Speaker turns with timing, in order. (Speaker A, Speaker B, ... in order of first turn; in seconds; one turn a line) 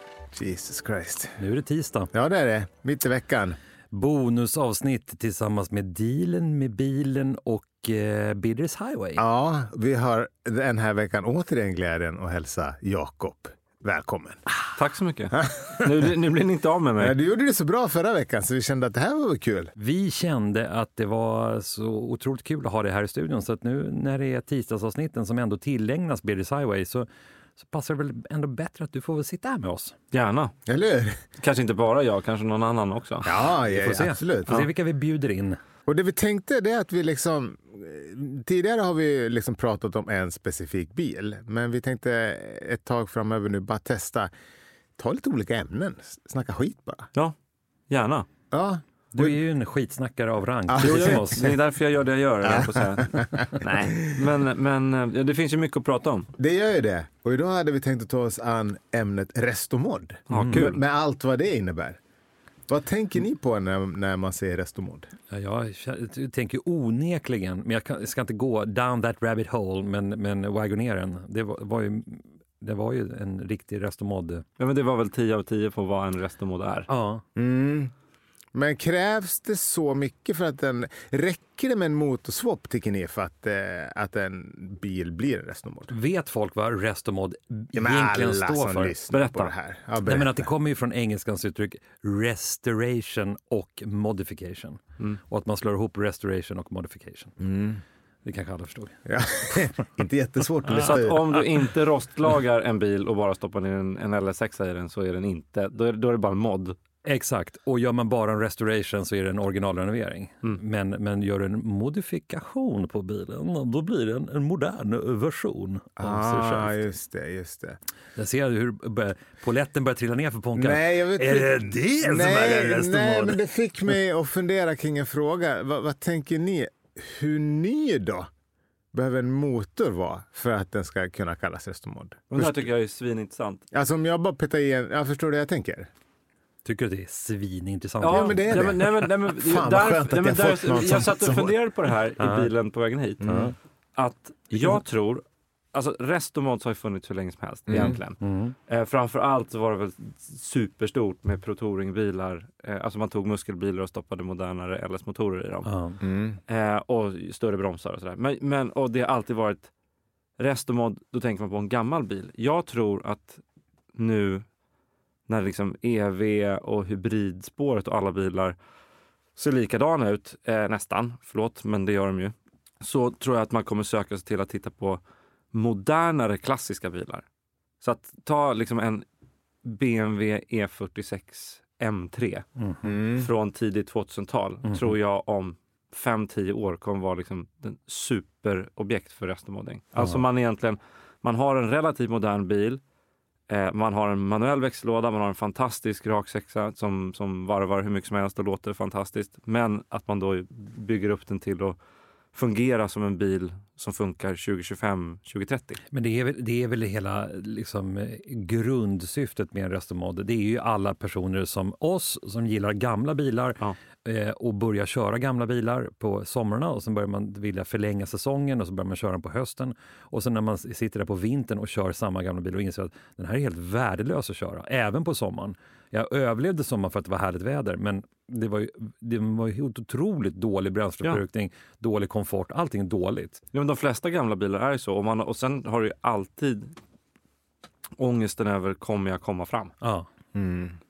Speaker A: 0.3-1.3
Speaker B: 1.4-2.1
Speaker A: 2.1-3.6
Speaker B: 3.9-9.2
Speaker A: 9.2-14.4
Speaker C: 14.8-17.1
Speaker A: 15.4-16.0
Speaker A: 17.0-19.7
Speaker B: 19.8-27.1
Speaker B: 27.6-29.9
Speaker C: 30.1-30.5
Speaker A: 30.7-31.2
Speaker C: 31.4-33.3
Speaker A: 33.2-34.6
Speaker B: 33.6-35.6
Speaker A: 35.9-44.3
Speaker A: 45.0-47.1
Speaker C: 47.9-48.3
Speaker A: 48.5-49.4
Speaker B: 49.1-51.5
Speaker A: 50.7-51.6
Speaker C: 50.8-56.3
Speaker A: 52.4-54.2
Speaker A: 56.4-62.0
Speaker B: 60.3-60.7
Speaker C: 60.3-60.8
Speaker A: 62.7-65.1
Speaker B: 65.3-74.4
Speaker C: 74.6-76.9
Speaker B: 76.9-77.2
Speaker A: 77.3-77.9
Speaker A: 78.5-85.9
Speaker B: 85.9-88.9
Speaker A: 87.7-90.5
Speaker C: 89.1-89.5
Speaker B: 90.0-97.4
Speaker A: 97.4-97.8
Speaker B: 98.2-99.5
Speaker A: 99.0-101.3
Speaker C: 100.7-106.8
Speaker B: 107.0-116.8
Speaker A: 116.0-117.8
Speaker B: 118.2-123.4
Speaker A: 120.5-128.3
Speaker A: 128.9-132.7
Speaker C: 132.3-133.6
Speaker A: 133.7-135.9
Speaker B: 136.6-138.9
Speaker C: 138.0-143.2
Speaker A: 138.0-141.6
Speaker B: 142.2-142.5
Speaker A: 143.2-143.5
Speaker B: 143.2-143.5
Speaker C: 143.9-155.7
Speaker B: 144.5-144.8
Speaker A: 147.7-148.0
Speaker B: 147.7-148.5
Speaker B: 155.6-156.0
Speaker A: 156.0-156.4
Speaker C: 156.5-159.7
Speaker C: 160.4-163.4
Speaker C: 163.9-164.4
Speaker C: 165.3-168.6
Speaker C: 169.4-175.0
Speaker C: 175.5-177.2
Speaker C: 177.8-179.0
Speaker C: 179.6-182.4
Speaker B: 182.6-182.9
Speaker A: 182.8-183.3
Speaker C: 183.1-192.8
Speaker B: 184.7-184.9
Speaker C: 193.5-201.8
Speaker C: 202.3-205.8
Speaker B: 205.9-233.4
Speaker C: 233.5-236.7
Speaker C: 238.0-239.7
Speaker B: 239.8-240.1
Speaker A: 240.3-240.8